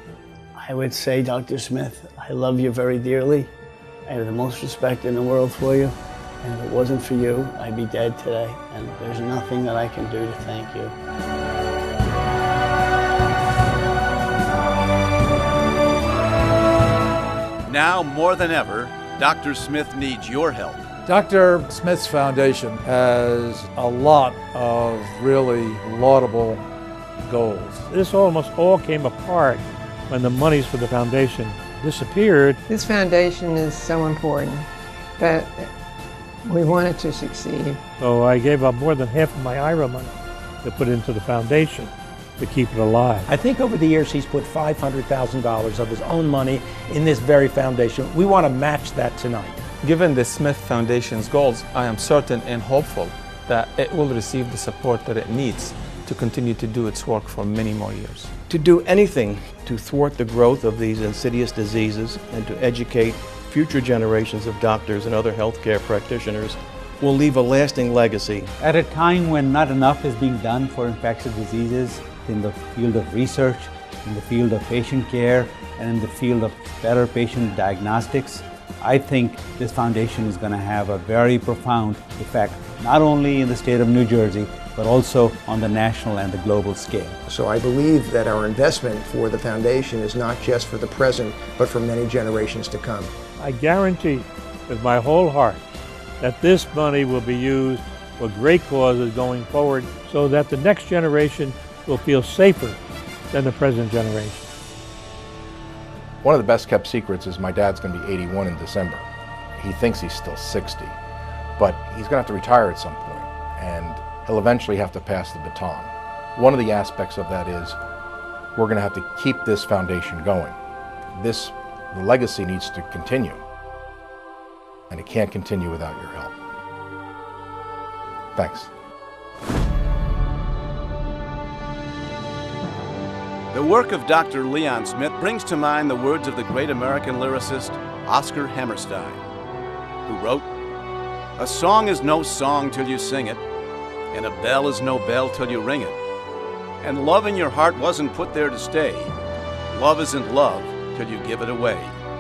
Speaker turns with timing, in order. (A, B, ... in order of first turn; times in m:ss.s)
0:00.6-0:03.5 A
0:04.1-0:10.9 A
0:17.7-0:20.8 B
0:21.1-0:26.6 C
0:27.2-0:27.9 C
0:27.9-0:32.6 D
0:32.7-0:35.7 E
0:36.4-0:37.8 E
0:38.0-0:43.3 D
0:43.3-0:49.6 F
0:50.0-0:58.3 G
0:58.5-1:08.5 H
1:08.6-1:27.2 I
1:27.3-1:33.1 J
1:33.4-1:35.6 D
1:36.2-1:42.8 D
1:43.3-1:44.5 D
1:46.2-1:49.1 K
1:49.6-1:51.0 K
1:51.6-1:57.8 K
1:58.6-2:00.6 K
2:01.2-2:03.4 K
2:04.9-2:06.3 K
2:08.4-2:08.7 K
2:13.5-2:19.2 B
2:20.1-2:20.5 B
2:21.4-2:23.4 B
2:24.1-2:26.0 B
2:26.8-2:29.1 B
2:29.7-2:32.0 B